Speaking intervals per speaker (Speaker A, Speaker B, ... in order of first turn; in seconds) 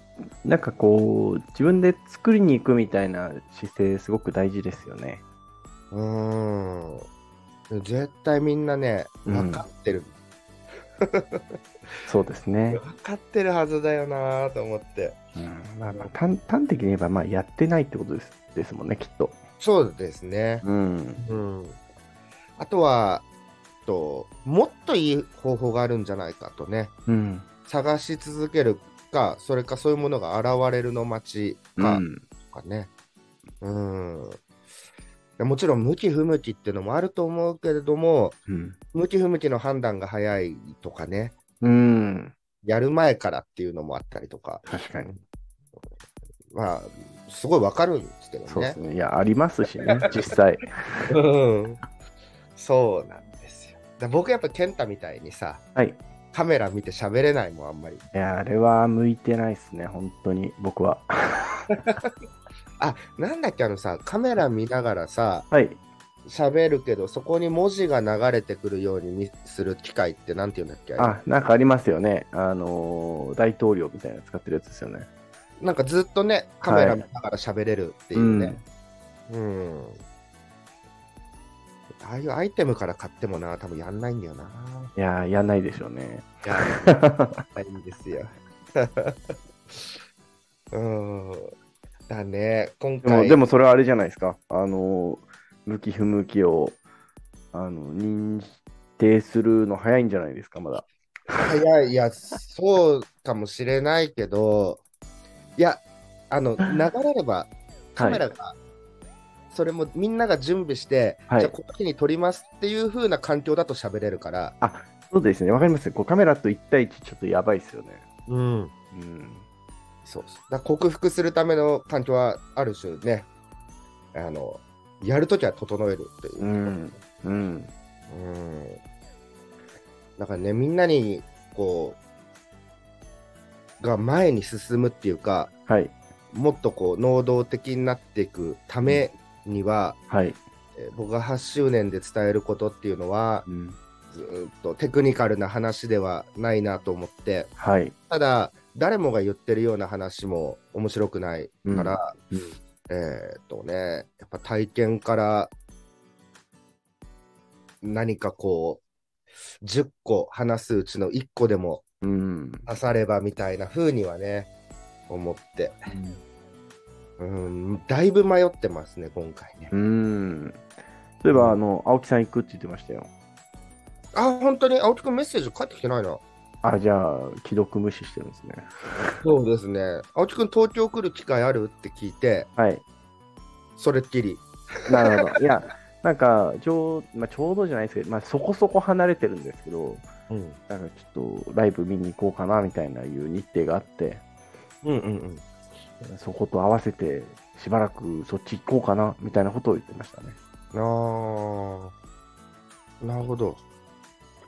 Speaker A: 0.4-5.2, 9.2-9.6, 12.1-12.8, 15.3-19.4, 20.6-21.2, 27.1-27.5, 31.8-32.2, 38.5-38.8, 41.6-42.3, 44.7-45.1, 48.5-51.1, 55.8-56.0, 58.1-61.6, 65.5-65.8, 71.0-75.1, 76.6-77.0, 78.1-78.6, 85.0-87.4, 93.0-96.8, 97.5-101.5, 108.0-108.2, 114.6-118.0, 118.9-119.4, 126.4-127.7, 135.7-136.0, 140.1-140.4, 143.4-143.8, 147.6-147.9, 151.6-152.5, 162.0-162.7, 165.9-166.2, 169.7-170.6, 171.2-173.1, 176.6-179.2, 182.6-182.8, 184.9-190.0, 190.7-194.2, 196.0-200.4
Speaker B: 5.9-7.0, 7.7-10.1, 11.0-11.4, 12.7-15.2, 19.6-20.6, 21.2-21.8, 22.6-23.2, 23.9-26.9, 27.7-32.9, 33.6-34.4, 35.4-38.4, 38.9-41.4, 42.6-45.2, 46.5-48.8, 51.1-51.8, 52.5-55.6, 56.3-58.0, 61.7-62.1, 62.8-65.5, 66.2-71.2, 75.6-78.5, 79.3-80.0, 82.0-84.9, 86.4-89.8, 90.7-91.5, 92.1-93.4, 101.3-104.8, 105.6-108.6, 109.5-114.5, 118.3-118.7, 120.0-123.3, 124.1-126.8, 128.1-128.8, 130.2-132.0, 133.8-135.5, 136.3-140.0, 140.8-143.4, 144.1-147.5, 148.1-152.1, 152.9-155.5, 157.8-158.8, 159.6-161.8, 162.7-164.5, 165.1-165.8, 167.2-169.7, 171.3-171.6, 174.1-176.2, 179.2-182.5, 183.8-185.2, 190.3-190.6, 194.8-195.4, 200.7-201.9, 203.0-203.6